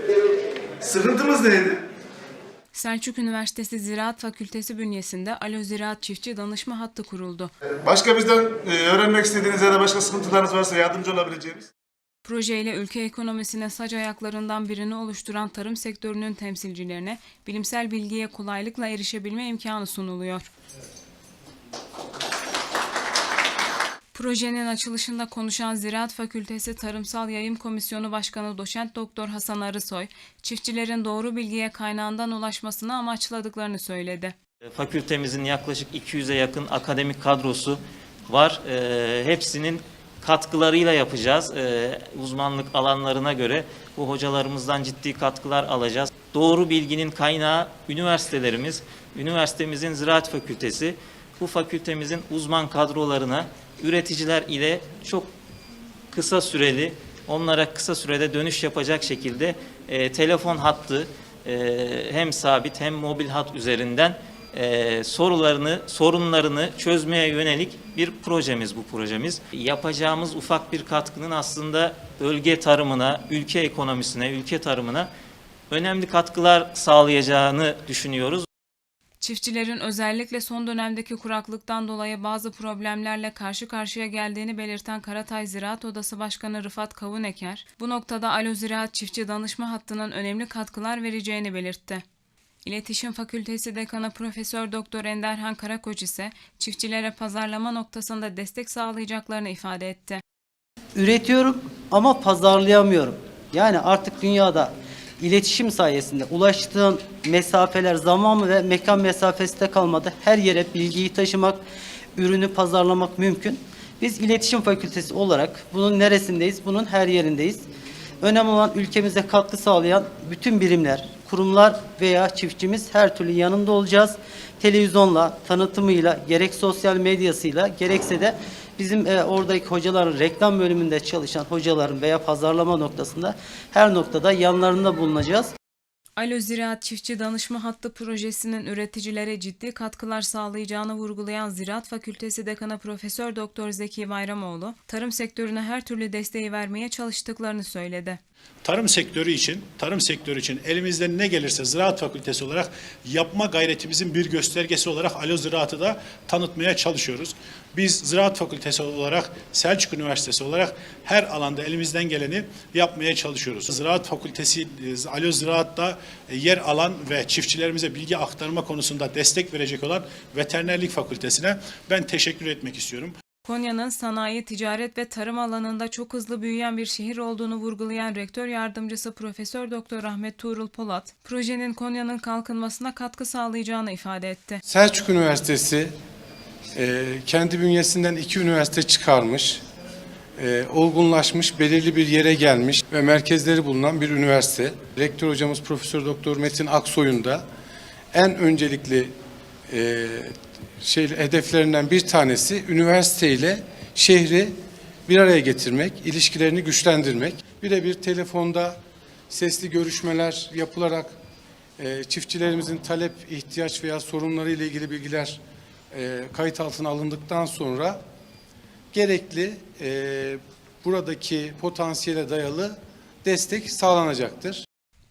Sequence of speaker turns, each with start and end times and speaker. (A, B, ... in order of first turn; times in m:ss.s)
0:00.8-0:01.8 A
0:02.7-0:07.5 B
0:07.9-0:11.6 A
0:12.2-0:20.5 B
0:24.1-0:34.4 B
0:34.7-0:55.3 C
0:56.1-1:15.1 C
1:15.7-1:18.5 C
1:19.2-1:32.0 B
1:32.6-1:40.2 B
1:41.0-1:51.6 D
1:52.2-1:57.7 D
1:58.2-2:15.5 D
2:16.2-2:28.2 B
2:28.6-2:53.2 E
2:53.5-3:04.6 B
3:04.7-3:05.9 F
3:06.7-3:09.6 F
3:10.4-3:17.4 F
3:18.1-3:19.1 F
3:19.7-3:24.6 F
3:25.1-3:28.8 F
3:29.3-3:31.2 F
3:31.8-3:35.4 F
3:35.9-3:38.0 F
3:38.9-3:44.6 F